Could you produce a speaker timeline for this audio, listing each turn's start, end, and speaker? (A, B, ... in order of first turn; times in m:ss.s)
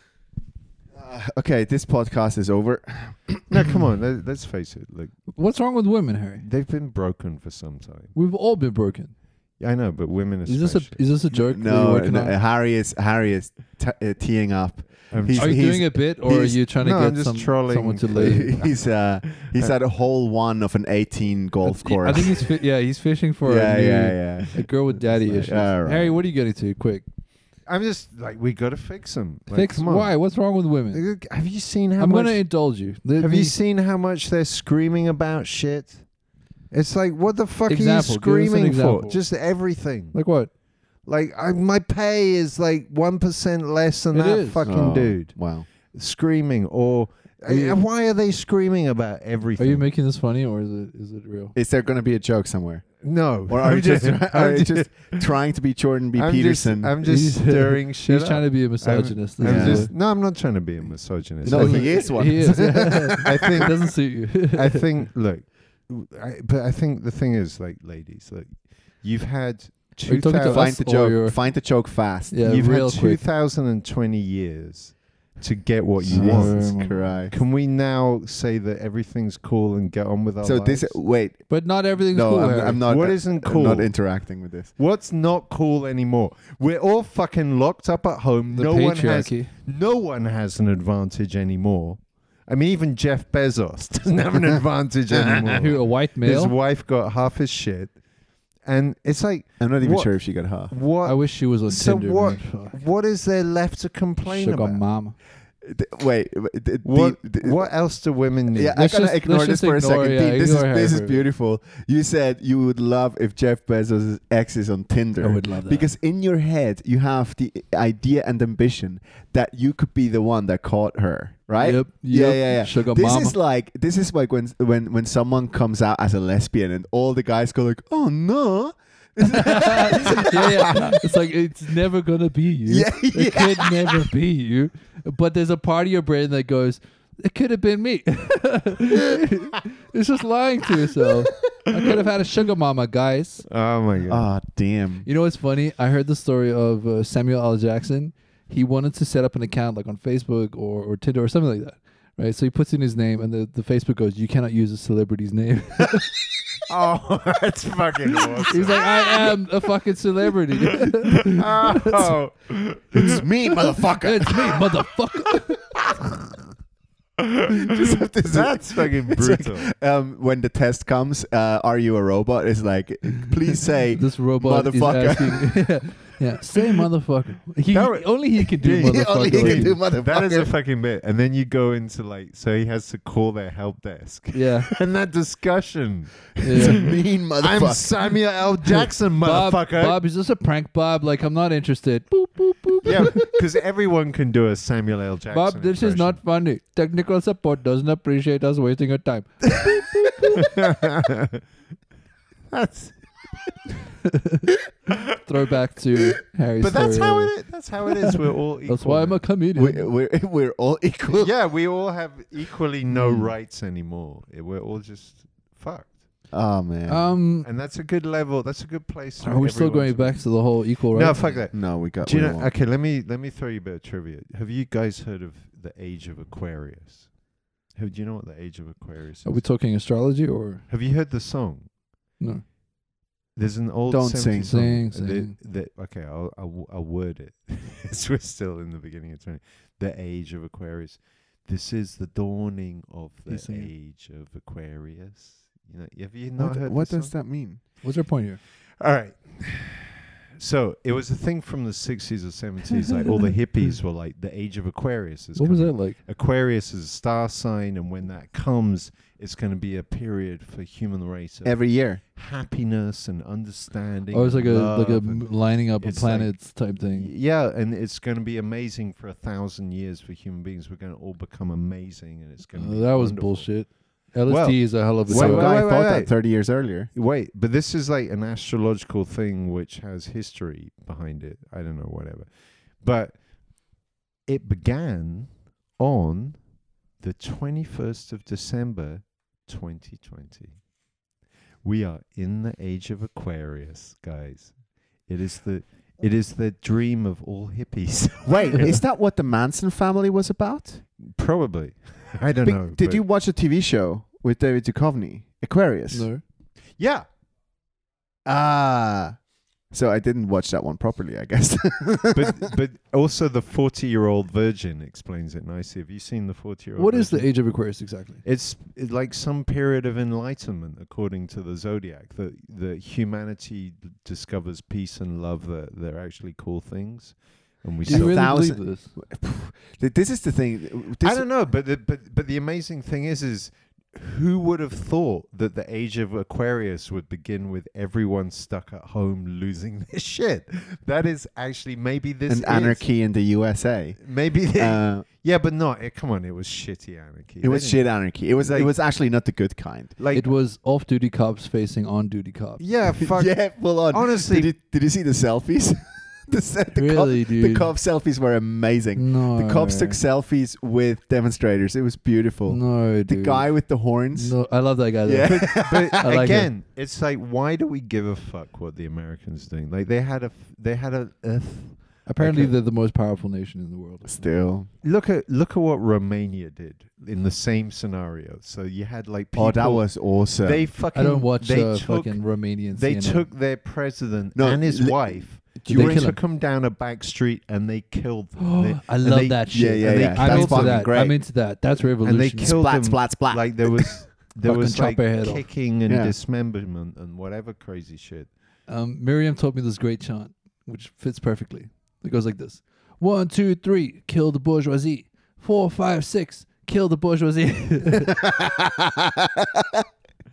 0:00.9-0:03.8 A
0:03.5-0:05.3 B
0:05.3-0:06.4 C
0:06.4-0:08.1 B
0:08.1-0:09.1 C
0:09.6-0:11.0 B
0:10.4-0:12.4 C
0:11.3-0:16.6 A
0:15.1-0:15.8 B
0:15.4-0:18.5 C
0:16.8-0:19.7 B
0:18.1-0:22.4 A
0:21.7-0:27.0 C
0:23.4-0:26.2 A
0:27.6-0:30.1 B
0:29.5-0:31.0 C
0:30.9-0:32.4 B
0:32.0-0:33.6 C
0:33.2-0:36.0 B
0:36.7-0:40.2 B
0:37.7-0:39.2 C
0:40.1-0:40.5 C
0:41.1-0:45.3 B
0:44.1-0:44.7 C
0:44.6-0:45.7 A
0:45.9-0:49.8 B
0:47.5-0:47.8 C
0:49.6-0:51.6 C
0:51.6-0:56.9 A
0:53.0-0:55.3 B
0:56.1-1:02.2 B
0:57.0-0:59.9 C
0:59.4-0:59.9 A
1:01.4-1:03.6 A
1:01.4-1:04.8 C
1:03.2-1:03.8 B
1:04.4-1:10.7 B
1:10.1-1:11.4 C
1:10.4-1:12.4 A
1:12.3-1:13.2 C
1:12.4-1:21.0 B
1:16.1-1:17.1 C
1:16.1-1:17.4 A
1:20.4-1:21.5 A
1:21.5-1:22.8 C
1:22.1-1:24.7 A
1:22.8-1:23.9 B
1:24.8-1:37.9 B
1:28.5-1:29.5 C
1:35.4-1:36.6 C
1:38.6-1:40.2 B
1:39.6-1:40.7 A
1:40.7-1:44.8 B
1:41.0-1:42.8 C
1:44.2-1:45.2 C
1:45.6-1:47.7 A
1:46.8-1:48.8 B
1:48.5-2:10.9 A
1:48.8-1:51.3 C
1:55.2-1:55.9 C
2:01.6-2:03.4 C
2:09.2-2:23.4 C
2:12.7-2:13.9 A
2:23.4-2:24.3 B
2:24.1-2:25.1 A
2:25.0-2:36.1 C
2:36.7-2:39.4 B
2:38.5-2:42.1 C
2:40.6-2:43.2 B
2:42.9-2:44.4 A
2:44.0-2:45.6 C
2:47.2-2:49.7 B
2:47.6-2:55.6 A
2:54.0-2:59.8 C
2:57.7-2:58.1 B
2:58.6-3:10.0 B
2:58.6-3:00.5 A
3:04.3-3:04.7 C
3:06.4-3:07.9 A
3:06.4-3:06.8 C
3:09.2-3:13.2 C
3:12.8-3:16.2 B
3:15.3-3:20.5 C
3:20.3-3:21.4 B
3:22.5-3:23.0 B
3:24.0-3:24.5 C
3:25.2-3:27.3 C
3:26.6-3:29.2 B
3:28.7-3:29.9 C
3:29.6-3:31.3 A
3:31.1-3:36.0 B
3:32.9-3:33.2 C
3:36.3-3:37.1 A
3:36.9-3:37.5 C
3:37.4-3:40.4 B
3:39.2-3:41.4 C
3:40.9-3:47.1 B
3:41.5-3:42.5 A
3:47.7-3:49.4 B
3:49.2-3:50.6 C
3:50.7-3:51.7 B
3:53.4-4:07.1 B
3:53.9-3:54.6 A
3:54.4-3:55.4 C
4:03.3-4:03.7 C
4:06.4-4:07.6 A
4:07.8-4:08.4 C
4:08.8-4:33.6 B
4:15.4-4:16.0 C
4:21.4-4:22.0 A
4:24.1-4:27.1 C
4:32.5-4:35.5 C
4:34.3-4:36.1 B
4:35.1-4:36.9 A
4:36.9-4:42.3 B
4:42.8-4:43.2 B
4:44.3-4:46.4 B
4:47.0-4:50.6 B
4:51.6-4:54.5 B
4:55.1-4:58.8 B
4:58.2-5:00.8 A
5:01.0-5:03.0 B
5:02.4-5:06.1 A
5:05.9-5:06.2 C
5:06.8-5:07.1 B
5:08.2-5:09.1 A
5:09.7-5:12.5 A
5:12.1-5:17.3 B
5:16.8-5:18.2 C
5:18.2-5:28.3 B
5:27.9-5:28.9 C
5:27.9-5:31.2 A
5:31.0-5:42.8 B
5:42.3-5:44.0 A
5:44.0-5:47.9 B
5:44.5-5:45.1 A
5:47.4-5:50.0 A
5:48.4-5:48.7 B
5:50.0-5:50.3 B
5:50.1-5:52.6 C
5:52.6-5:54.5 B
5:53.0-6:04.4 A
5:56.7-5:57.7 C
5:59.0-6:00.0 C
6:02.5-6:03.5 C
6:04.1-6:06.5 C
6:05.0-6:06.1 A
6:05.2-6:12.5 B
6:12.1-6:14.3 C
6:14.0-6:14.7 A
6:14.8-6:19.8 B
6:19.3-6:20.6 A
6:20.4-6:31.2 B
6:20.9-6:23.3 C
6:24.4-6:26.1 A
6:25.6-6:26.2 C
6:28.4-6:32.6 C
6:29.5-6:31.2 A
6:32.0-6:38.3 B
6:32.4-6:34.0 A
6:34.4-6:35.4 C
6:35.9-6:36.1 A
6:38.7-6:48.1 C
6:48.0-6:49.8 A